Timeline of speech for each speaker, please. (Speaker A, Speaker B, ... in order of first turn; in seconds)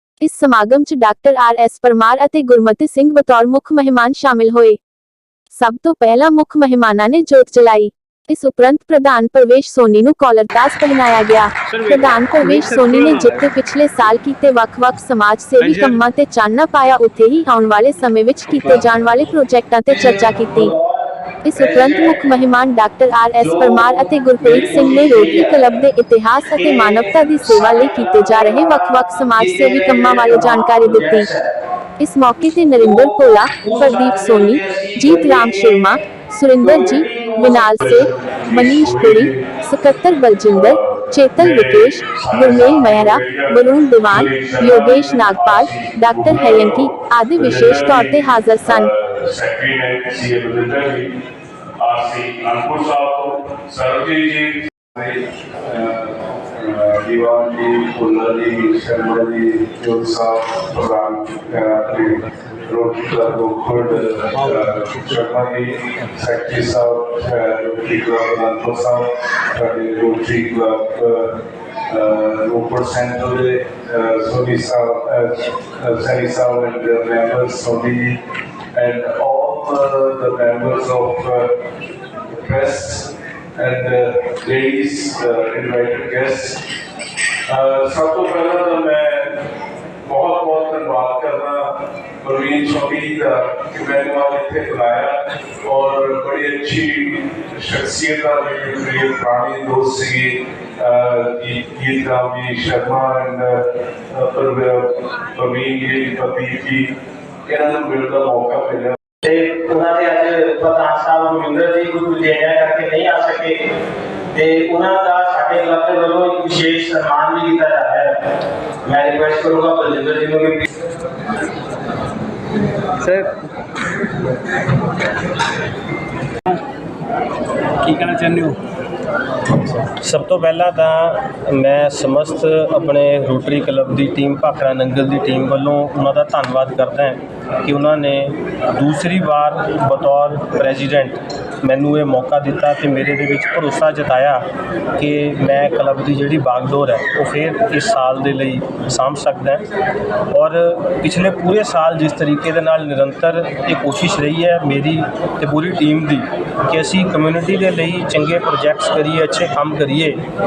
Speaker A: 0.2-4.8, 5.5-20.7, 21.4-31.3, 32.0-48.9
Speaker B: 11.7-13.4, 15.6-16.0, 123.0-123.3, 127.8-128.6
Speaker C: 20.5-22.1, 23.4-25.7, 26.5-31.5, 32.8-35.9, 36.6-37.7, 109.2-113.6, 114.3-118.2, 118.8-120.7
Speaker D: 37.8-39.5, 40.5-51.1, 51.8-78.2, 78.7-81.5, 82.3-86.6, 87.5-89.4, 90.0-109.0
Speaker E: 129.6-149.6, 150.3-160.2